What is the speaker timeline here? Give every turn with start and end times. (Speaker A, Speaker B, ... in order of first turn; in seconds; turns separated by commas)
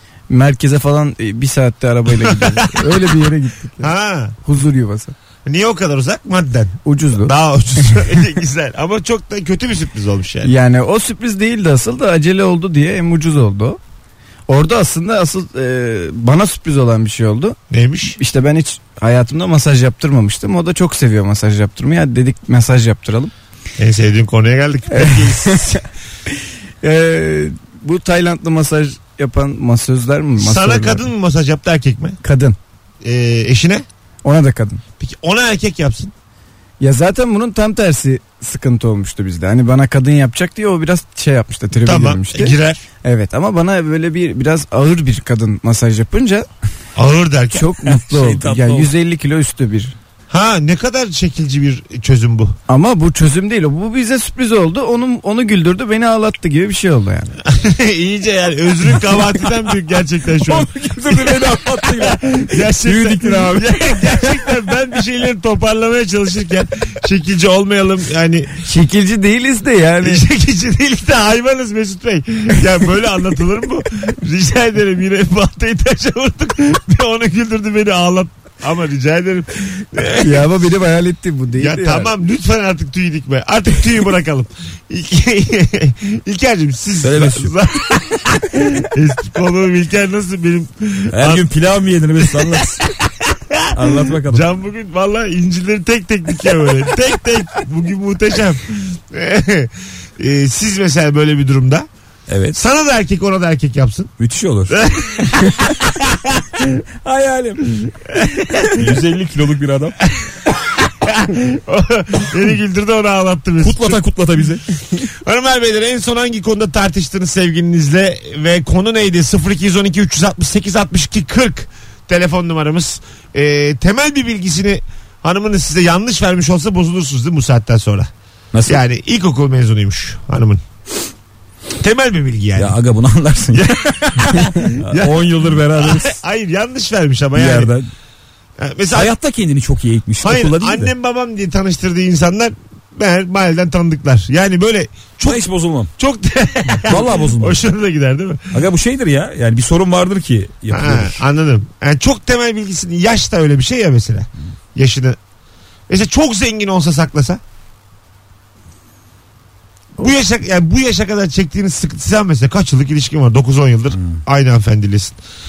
Speaker A: 0.3-5.1, Speaker B: 2.2-2.9, Speaker B: 3.8-4.3, Speaker B: 5.4-10.5, Speaker A: 6.8-7.3, Speaker A: 10.4-13.8, Speaker A: 14.5-17.6, Speaker B: 17.7-18.1, Speaker A: 18.1-23.3, Speaker B: 23.8-25.8, Speaker A: 24.9-25.8, Speaker A: 26.8-31.1, Speaker B: 30.4-32.2, Speaker A: 32.2-32.6, Speaker B: 33.0-33.8, Speaker A: 34.2-34.8, Speaker B: 35.0-36.1, Speaker A: 36.8-46.5, Speaker B: 41.8-42.8, Speaker B: 47.0-47.7, Speaker A: 47.5-49.9, Speaker C: 47.9-48.9, Speaker B: 50.3-52.5, Speaker A: 52.7-57.3, Speaker B: 57.5-68.6, Speaker C: 60.4-64.3, Speaker A: 68.6-70.2, Speaker B: 70.0-80.6, Speaker A: 80.2-82.1, Speaker B: 81.6-91.4, Speaker C: 87.0-87.5, Speaker C: 91.1-92.8, Speaker B: 92.2-101.9, Speaker C: 93.7-94.5, Speaker C: 102.3-102.6, Speaker B: 102.5-104.1, Speaker C: 104.2-104.8, Speaker B: 104.7-106.7, Speaker C: 107.0-107.9, Speaker B: 108.1-108.9, Speaker C: 108.7-110.0, Speaker B: 110.5-114.0, Speaker C: 113.6-114.6, Speaker B: 115.2-128.1, Speaker C: 128.5-128.8, Speaker B: 128.7-130.6, Speaker B: 131.8-132.8, Speaker C: 132.6-136.2, Speaker B: 133.5-137.7, Speaker C: 137.3-137.9, Speaker B: 138.6-139.1, Speaker C: 138.9-140.9, Speaker B: 140.2-145.4, Speaker C: 145.2-145.9, Speaker B: 146.0-148.5, Speaker C: 146.8-147.6, Speaker C: 148.5-151.2, Speaker B: 150.7-155.2, Speaker B: 155.9-157.4, Speaker B: 160.0-165.2, Speaker C: 163.9-164.2